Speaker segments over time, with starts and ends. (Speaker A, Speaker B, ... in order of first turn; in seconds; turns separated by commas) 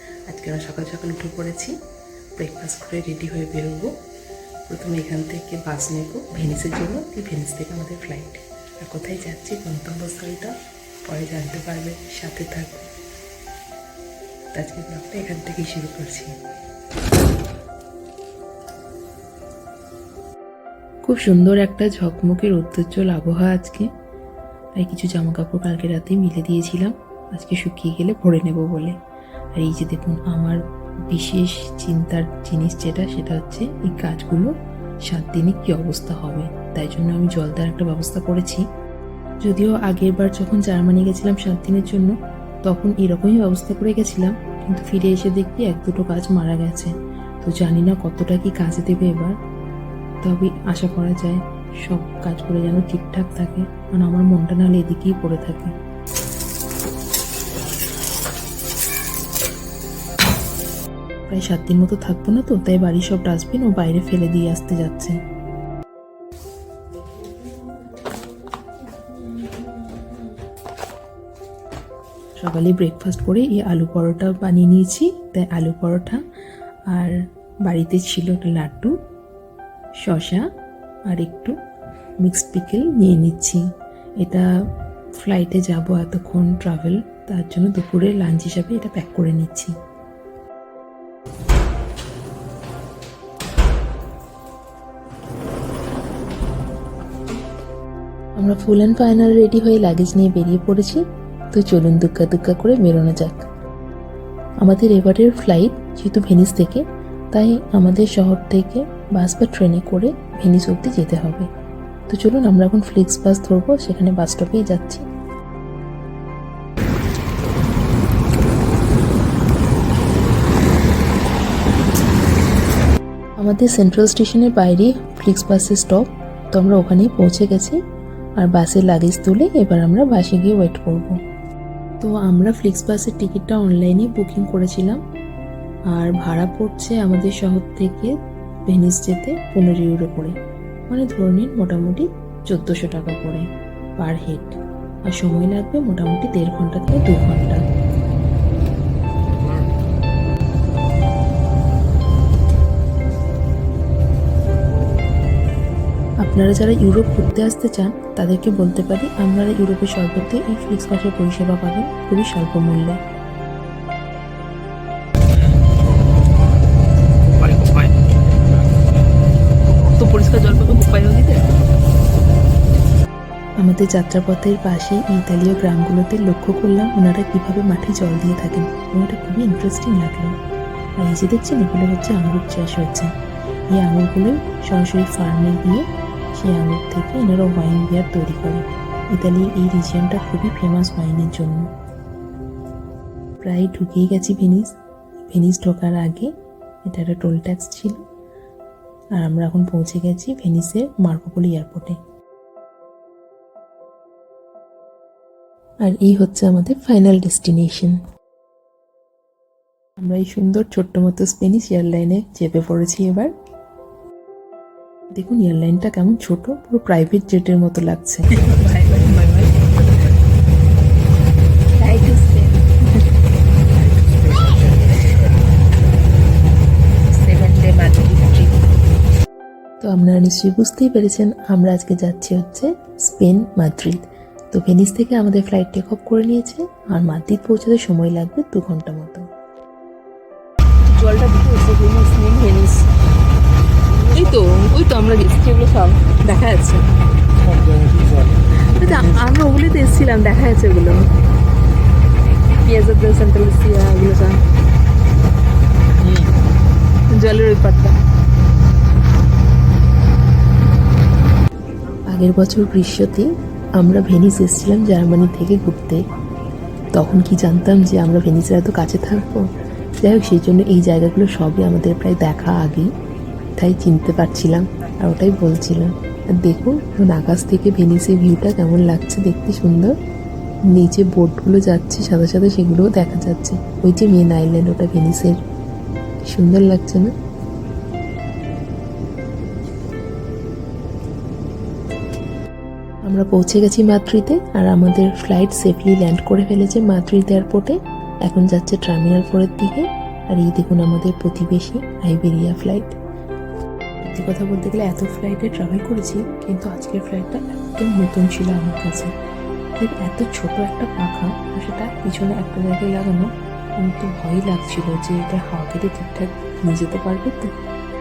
Speaker A: 0.2-1.8, Speaker A: 2.4-3.9, Speaker A: 4.7-10.5, Speaker A: 11.1-12.9, Speaker A: 14.5-16.4, Speaker A: 21.0-23.9, Speaker A: 24.8-28.9, Speaker A: 29.5-34.5, Speaker A: 35.0-38.6, Speaker A: 39.4-42.1, Speaker A: 42.6-49.3, Speaker A: 50.2-55.7, Speaker A: 61.3-65.2, Speaker A: 72.4-76.2, Speaker A: 76.9-78.9, Speaker A: 80.0-80.4, Speaker A: 81.1-81.5, Speaker A: 82.2-83.6, Speaker A: 84.2-84.5, Speaker A: 85.1-89.7, Speaker A: 98.3-103.4, Speaker A: 104.6-111.5, Speaker A: 112.1-115.0, Speaker A: 123.4-127.8, Speaker A: 128.4-131.2, Speaker A: 132.0-135.0, Speaker A: 135.9-138.1, Speaker A: 138.7-140.3, Speaker A: 140.9-143.5, Speaker A: 144.0-147.6, Speaker A: 156.2-163.0, Speaker B: 167.4-168.0, Speaker B: 169.7-171.5, Speaker A: 173.6-180.3, Speaker A: 181.0-183.1, Speaker A: 183.7-191.7, Speaker A: 193.4-194.7, Speaker A: 195.3-196.3, Speaker A: 196.8-198.0, Speaker A: 199.1-202.0, Speaker A: 205.8-208.0, Speaker A: 210.0-213.3, Speaker A: 215.1-218.9, Speaker B: 218.4-220.1, Speaker B: 221.8-222.8, Speaker A: 221.8-222.1, Speaker B: 223.8-225.0, Speaker B: 227.2-228.6, Speaker A: 229.8-239.3, Speaker B: 240.8-242.9, Speaker B: 244.0-246.8, Speaker A: 244.1-246.8, Speaker B: 247.5-249.3, Speaker A: 248.7-251.0, Speaker B: 252.5-254.3, Speaker A: 252.8-254.3, Speaker B: 257.2-257.9, Speaker A: 257.2-257.6, Speaker A: 262.1-266.0, Speaker A: 266.9-272.9, Speaker A: 273.6-279.9, Speaker A: 280.7-285.4, Speaker A: 286.2-287.1, Speaker A: 293.1-302.9, Speaker A: 304.0-309.1, Speaker A: 309.8-317.5